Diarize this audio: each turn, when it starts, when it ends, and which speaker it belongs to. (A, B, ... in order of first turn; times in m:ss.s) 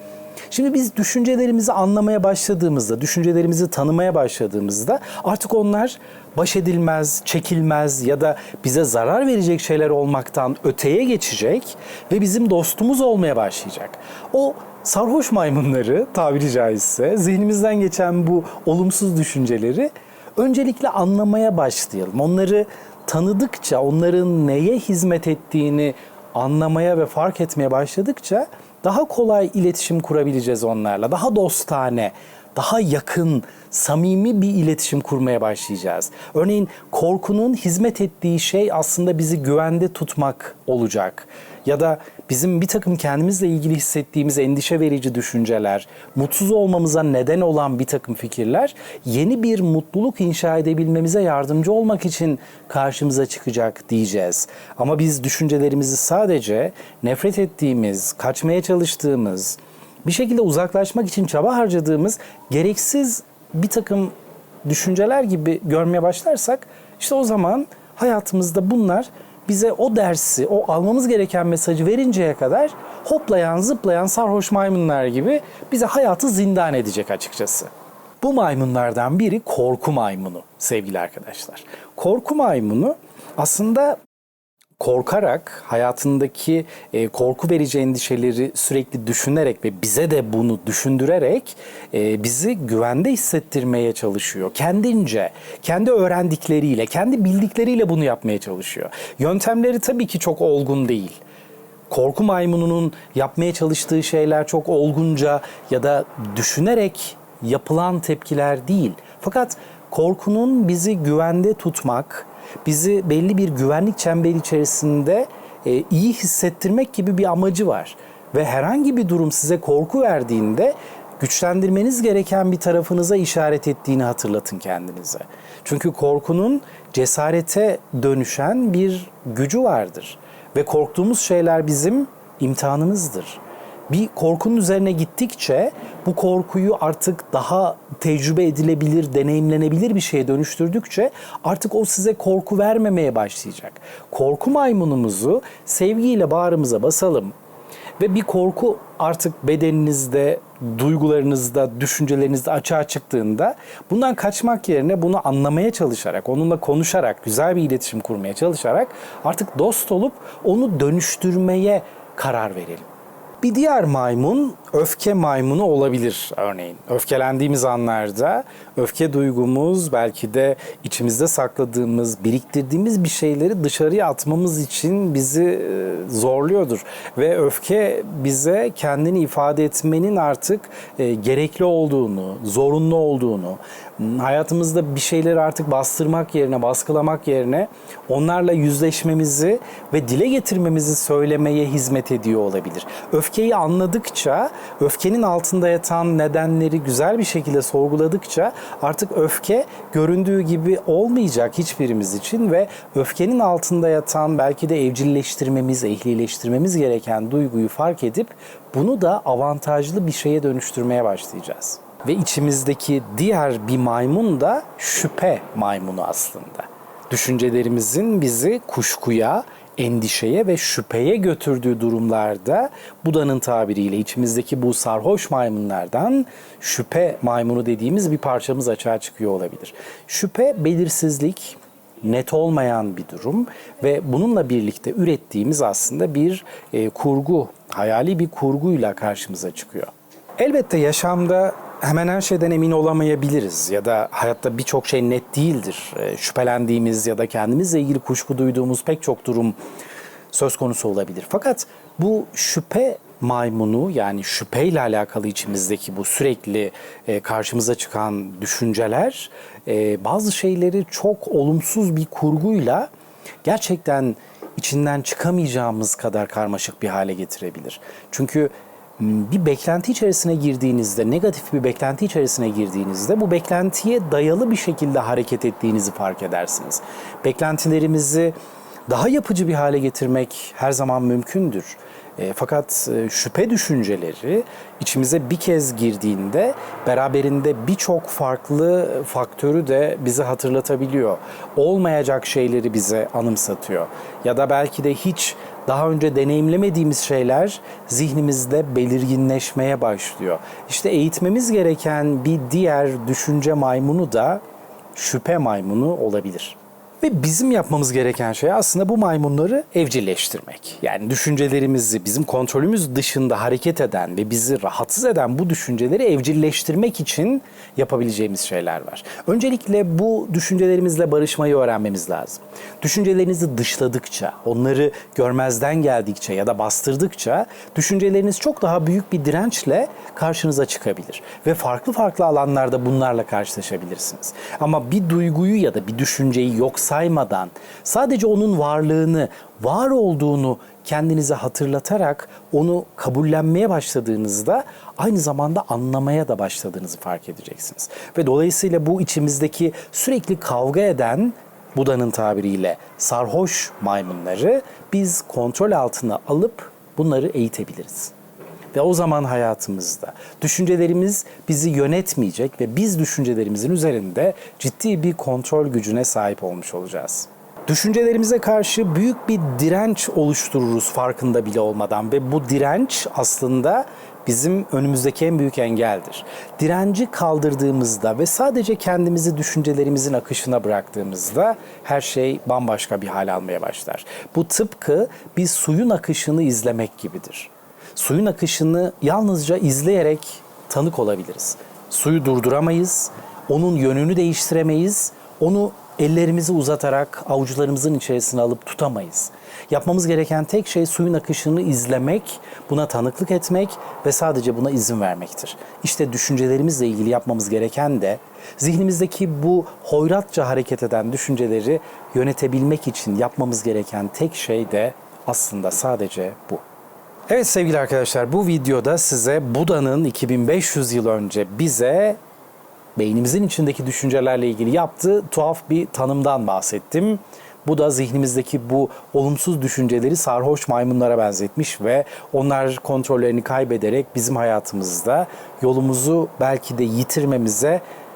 0:00.5-1:17.7 A
1:18.2-1:24.0 A
1:24.8-1:41.2 A
1:41.9-2:27.3 A
2:28.0-2:42.9 A
2:43.4-4:09.5 A
4:10.3-4:22.9 A
4:23.4-4:38.3 A
4:38.9-5:04.4 A
5:04.9-5:58.1 A
5:58.7-6:56.6 A
6:57.3-7:02.2 A
7:03.0-7:17.8 A